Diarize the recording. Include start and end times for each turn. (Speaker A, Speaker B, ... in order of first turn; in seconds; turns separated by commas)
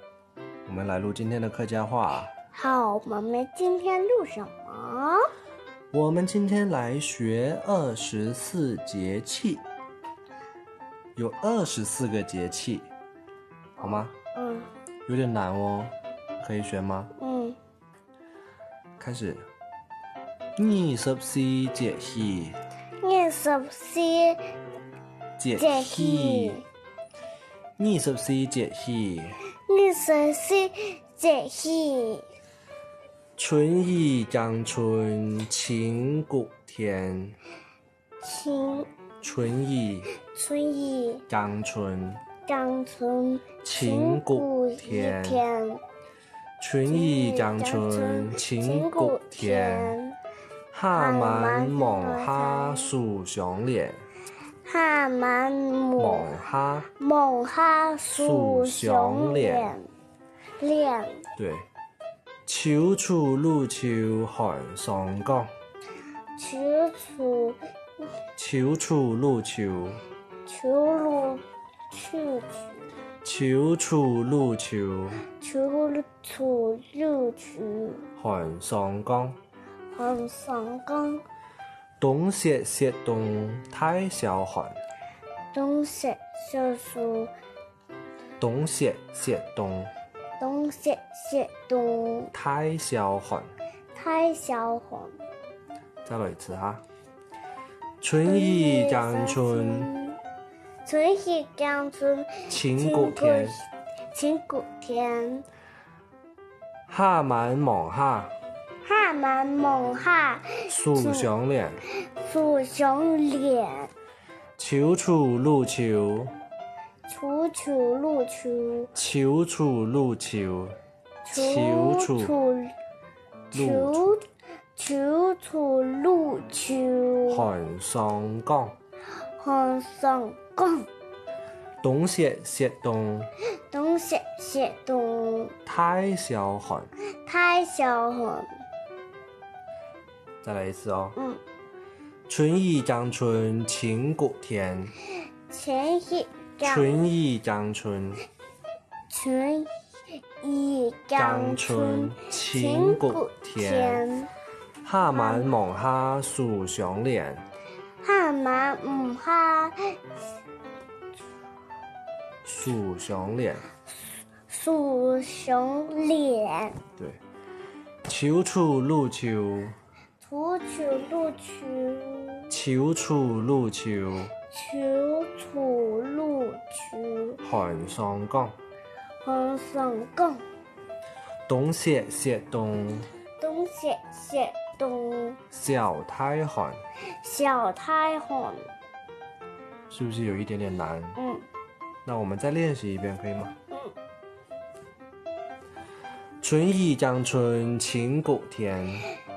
Speaker A: 0.7-2.3, Speaker B: 2.5-5.2, Speaker A: 5.9-9.7, Speaker A: 11.2-12.9, Speaker A: 13.8-14.2, Speaker B: 13.9-14.7, Speaker A: 15.1-17.1, Speaker B: 17.2-17.6, Speaker A: 19.0-19.4, Speaker A: 20.6-22.6, Speaker B: 23.0-24.4, Speaker A: 25.4-26.6, Speaker B: 25.6-26.6, Speaker A: 27.8-29.4, Speaker B: 29.7-32.2, Speaker A: 33.4-37.4, Speaker B: 38.2-38.9, Speaker A: 39.2-40.1, Speaker B: 40.2-41.2, Speaker A: 41.3-42.2, Speaker B: 42.5-45.8, Speaker A: 43.6-45.4, Speaker A: 46.6-50.0, Speaker B: 46.9-50.2, Speaker A: 50.7-54.0, Speaker B: 50.9-52.9, Speaker B: 54.6-56.3, Speaker A: 56.0-56.9, Speaker B: 57.0-59.9, Speaker A: 58.1-59.8, Speaker B: 60.6-61.2, Speaker A: 61.4-61.7, Speaker A: 62.5-65.5, Speaker B: 66.4-67.6, Speaker A: 68.4-70.0, Speaker B: 70.5-72.8, Speaker A: 73.2-75.2, Speaker B: 75.4-78.1, Speaker A: 78.2-79.4, Speaker B: 79.9-81.2, Speaker A: 82.0-84.8, Speaker B: 85.5-87.3, Speaker A: 88.4-89.9, Speaker B: 90.4-92.3, Speaker A: 92.3-93.5, Speaker B: 93.9-95.2, Speaker A: 96.0-96.8, Speaker A: 98.0-99.9, Speaker B: 98.2-100.2, Speaker B: 100.8-103.6, Speaker A: 102.5-103.6, Speaker B: 104.1-105.5, Speaker A: 106.9-108.3, Speaker B: 108.8-111.3, Speaker A: 110.7-111.8, Speaker B: 112.2-113.9, Speaker A: 114.6-116.3, Speaker B: 117.1-118.9, Speaker A: 119.0-120.8, Speaker B: 121.2-122.7, Speaker A: 121.3-122.3, Speaker B: 123.5-124.2, Speaker A: 123.5-124.1, Speaker B: 124.8-127.5, Speaker A: 127.3-128.8, Speaker B: 129.4-130.9, Speaker A: 131.8-133.3, Speaker B: 133.7-135.6, Speaker A: 135.7-136.9, Speaker B: 137.2-138.5, Speaker A: 140.4-141.2, Speaker A: 142.3-144.9, Speaker B: 145.5-147.1, Speaker A: 146.6-148.2, Speaker B: 149.1-149.7, Speaker B: 150.4-154.3, Speaker A: 151.2-154.1, Speaker A: 154.8-157.4, Speaker B: 155.1-155.5, Speaker B: 158.0-159.8, Speaker A: 162.4-163.7, Speaker B: 164.5-166.8, Speaker A: 168.1-169.8, Speaker B: 170.2-172.5, Speaker A: 172.5-174.3, Speaker B: 174.5-177.4, Speaker A: 177.4-178.5, Speaker B: 179.2-180.4, Speaker A: 181.5-183.1, Speaker B: 183.4-185.4, Speaker A: 185.5-186.8, Speaker B: 187.2-188.7, Speaker A: 189.9-191.2, Speaker B: 191.2-191.5, Speaker A: 192.1-193.5, Speaker A: 196.4-199.1